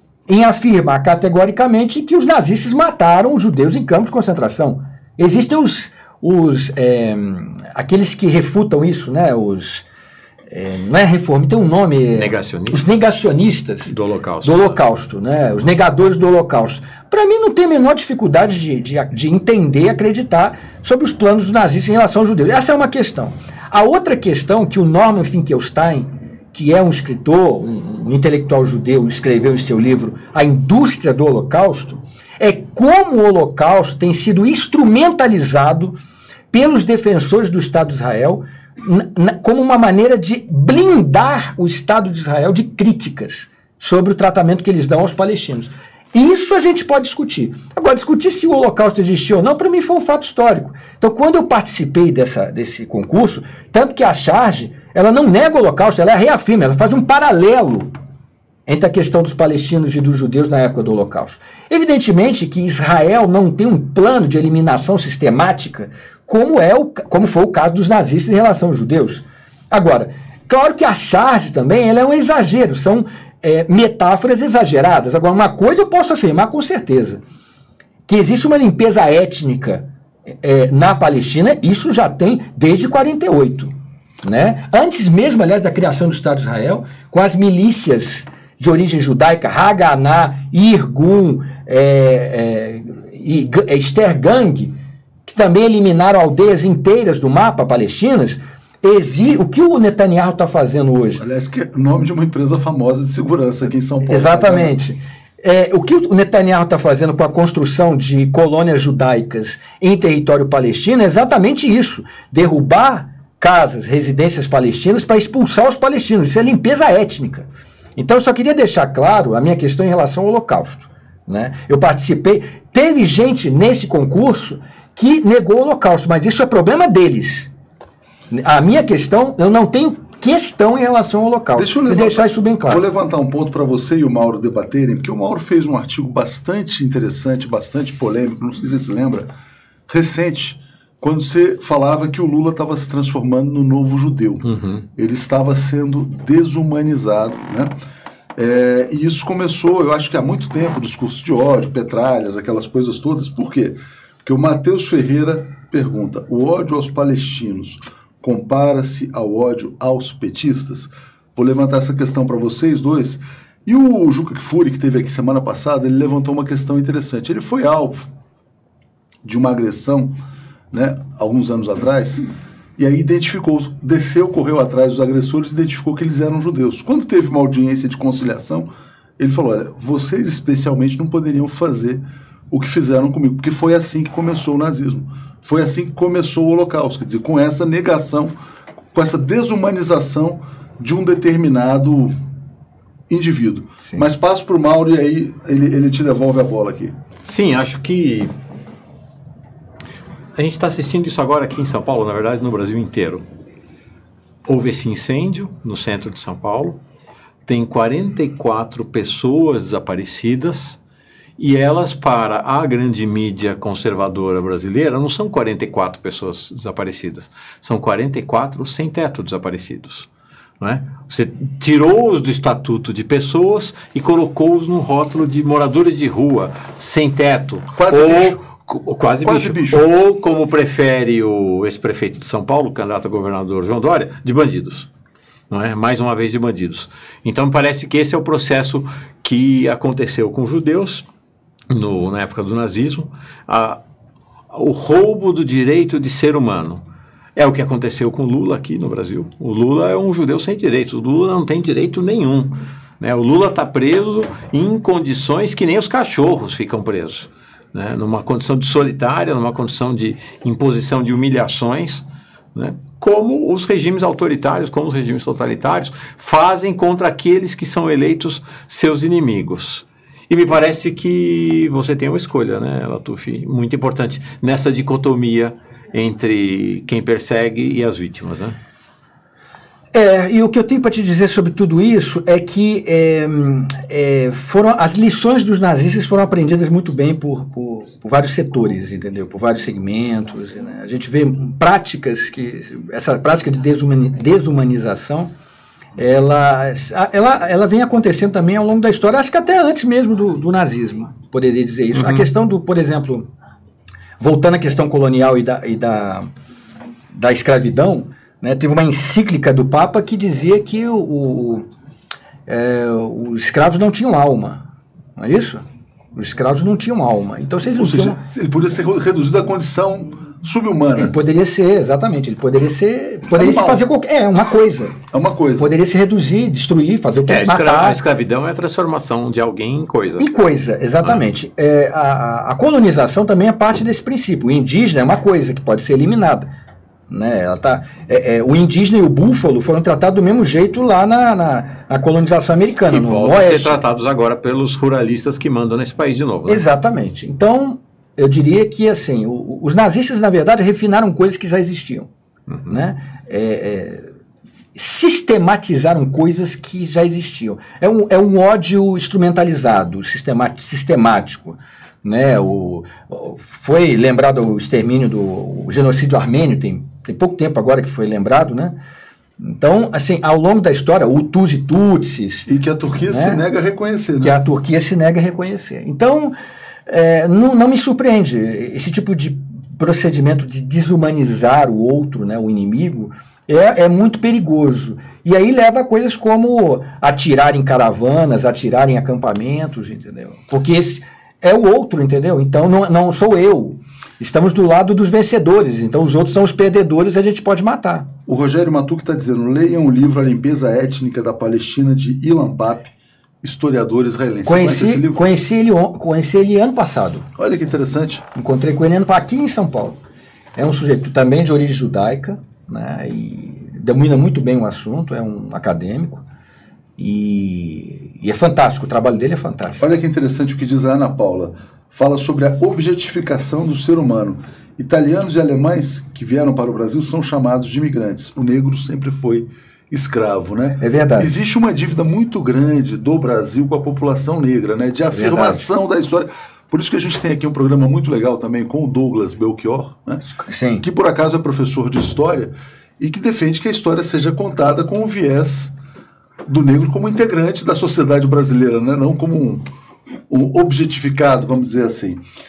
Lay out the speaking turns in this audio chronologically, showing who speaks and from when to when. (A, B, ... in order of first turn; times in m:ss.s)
0:00.3-0:09.8 A
0:10.5-0:13.9 A
0:12.1-0:13.0 B
0:13.9-0:14.8 B
0:14.4-0:36.0 A
0:36.5-0:57.9 A
0:58.7-1:17.2 A
1:18.1-1:19.8 A
1:20.4-1:34.7 A
1:35.2-1:41.2 A
1:41.2-1:44.7 C
1:44.0-2:07.5 A
2:08.3-2:12.8 A
2:11.6-2:19.3 C
2:19.9-2:27.7 C
2:24.4-2:24.8 B
2:28.4-2:48.1 C
2:49.2-2:50.1 C
2:50.7-2:52.2 C
2:52.8-2:58.7 C
2:59.2-3:08.3 C
3:08.9-3:12.2 C
3:13.1-3:17.0 C
3:17.2-3:18.3 B
3:20.3-3:23.2 B
3:24.4-3:26.8 B
3:27.4-3:30.8 B
3:31.4-3:40.1 B
3:40.6-3:54.9 B
3:47.7-3:48.4 C
3:49.2-3:49.8 C
3:55.5-4:01.0 B
4:01.7-4:03.8 B
4:04.5-4:06.8 B
4:07.4-4:22.0 B
4:22.5-4:38.5 B
4:39.9-4:55.3 A
4:56.0-5:03.3 A
5:01.9-5:02.3 B
5:04.2-5:06.3 A
5:07.1-5:11.6 A
5:12.5-5:14.6 A
5:15.2-5:15.6 A
5:16.1-5:18.2 A
5:17.7-5:21.2 C
5:21.0-5:25.0 A
5:23.3-5:23.8 C
5:25.1-5:25.7 C
5:25.6-5:28.0 A
5:27.3-5:30.3 B
5:30.2-5:36.5 A
5:37.1-5:43.8 A
5:42.9-5:46.6 B
5:46.5-5:52.1 A
5:52.7-5:54.1 A
5:54.8-6:08.8 A
6:09.4-6:12.5 A
6:12.5-6:14.4 C
6:13.0-6:13.4 A
6:14.2-6:16.3 A
6:16.9-6:38.1 A
6:38.3-6:45.2 C
6:44.4-6:47.3 A
6:47.4-6:48.2 C
6:48.4-6:50.0 A
6:50.5-6:56.2 A
6:57.0-6:59.8 A
6:59.8-7:20.2 C
7:10.8-7:11.3 A
7:15.1-7:15.6 A
7:20.4-7:20.8 A
7:20.8-7:25.7 C
7:26.4-7:29.6 C
7:30.3-7:32.2 C